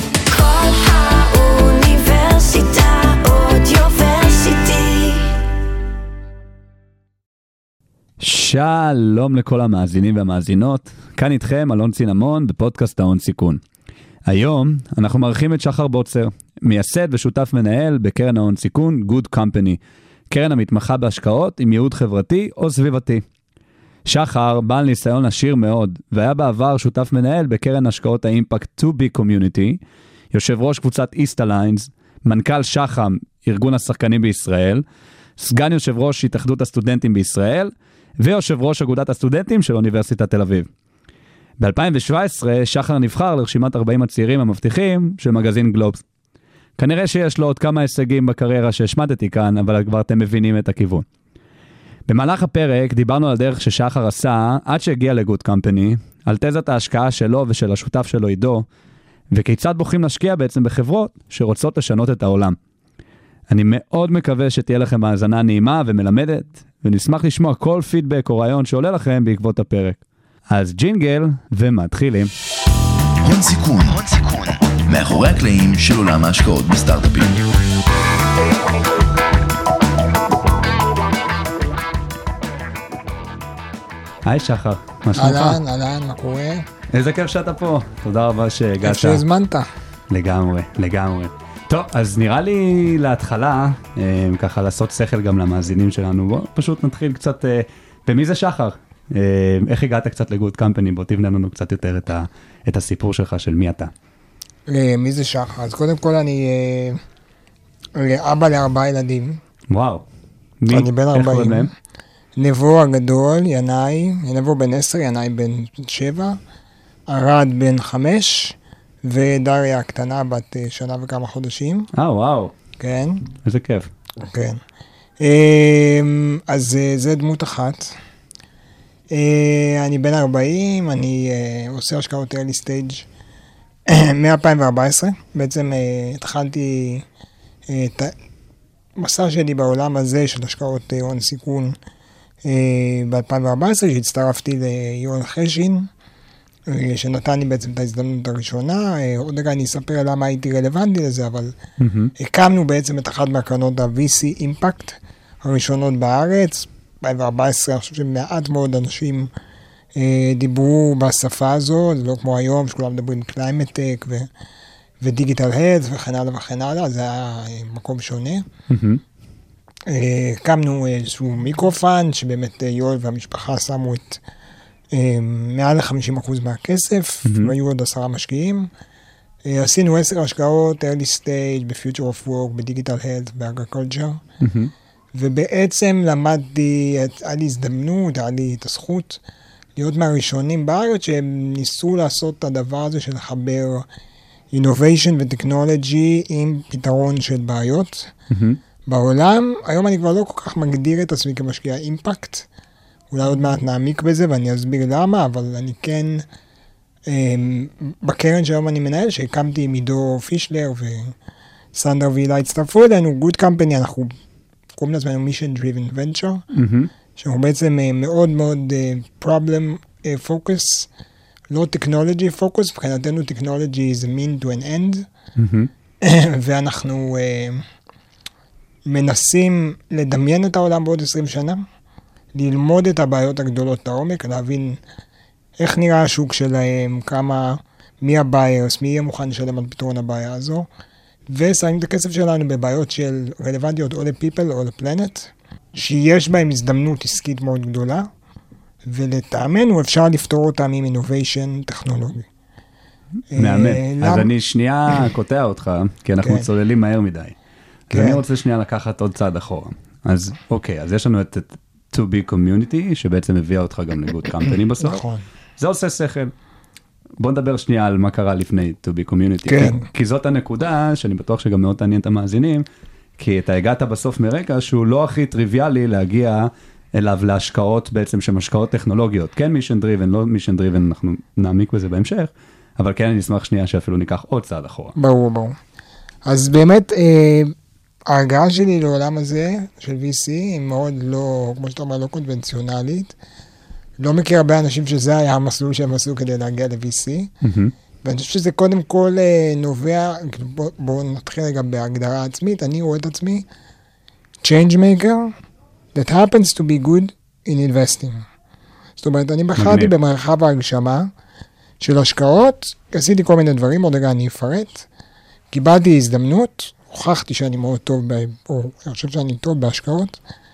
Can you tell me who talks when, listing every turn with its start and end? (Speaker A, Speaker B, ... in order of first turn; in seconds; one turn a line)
Speaker A: 0.3-5.4
Speaker B: 8.2-13.6
Speaker B: 14.3-23.2
Speaker B: 24.1-29.8
Speaker B: 30.3-34.9
Speaker B: 35.4-40.7
Speaker B: 41.6-46.0
Speaker B: 46.8-51.1
Speaker B: 52.1-58.7
Speaker B: 59.3-62.6
Speaker B: 63.5-72.3
Speaker C: 73.2-77.5
Speaker B: 84.2-85.6
Speaker D: 85.1-86.7
Speaker B: 86.9-89.2
Speaker D: 88.8-89.7
Speaker B: 90.1-103.9
Speaker D: 104.7-107.0
Speaker D: 108.0-109.4
Speaker B: 109.7-110.1
Speaker B: 110.6-111.7
Speaker D: 110.7-111.7
Speaker D: 112.4-116.4
Speaker D: 117.1-121.9
Speaker B: 121.9-122.5
Speaker D: 122.8-123.2
Speaker B: 123.4-123.9
Speaker D: 124.2-124.6
Speaker D: 125.2-128.0
Speaker D: 129.1-133.1
Speaker D: 133.9-137.1
Speaker D: 137.7-138.1
Speaker D: 139.0-141.8
Speaker D: 142.4-145.9
Speaker D: 146.7-151.6
Speaker B: 151.8-152.1
Speaker D: 152.2-159.3
Speaker D: 159.9-164.3
Speaker D: 165.0-168.5
Speaker B: 168.7-169.0
Speaker D: 169.9-174.2
Speaker D: 174.9-178.7
Speaker B: 177.2-177.5
Speaker D: 179.4-184.2
Speaker B: 184.4-184.7
Speaker D: 185.1-189.2
Speaker D: 189.8-193.9
Speaker D: 194.5-198.1
Speaker B: 198.3-198.6
Speaker D: 198.9-202.5
Speaker D: 203.1-206.3
Speaker D: 207.1-211.2
Speaker D: 211.7-214.2
Speaker D: 214.8-216.5
Speaker B: 216.5-216.9
Speaker D: 217.2-220.9
Speaker D: 221.5-225.1
Speaker B: 225.4-225.7
Speaker D: 226.0-227.6
Speaker D: 228.9-231.6
Speaker D: 232.3-234.8
Speaker D: 235.6-240.7
Speaker D: 241.3-248.1
Speaker D: 248.9-252.3
Speaker D: 253.3-254.3
Speaker B: 253.3-257.4
Speaker D: 257.9-258.2
Speaker B: 257.9-265.0
Speaker D: 264.8-265.2
Speaker B: 265.6-266.3
Speaker B: 267.2-272.7
Speaker D: 269.4-269.9
Speaker B: 273.2-284.9
Speaker D: 284.9-285.6
Speaker D: 286.2-287.5
Speaker D: 288.1-293.1
Speaker D: 294.0-297.3
Speaker B: 297.4-297.7
Speaker D: 298.0-303.5
Speaker D: 304.4-305.3
Speaker D: 305.9-308.2
Speaker D: 309.0-311.1
Speaker B: 309.6-309.9
Speaker D: 311.8-314.9
Speaker D: 315.5-320.2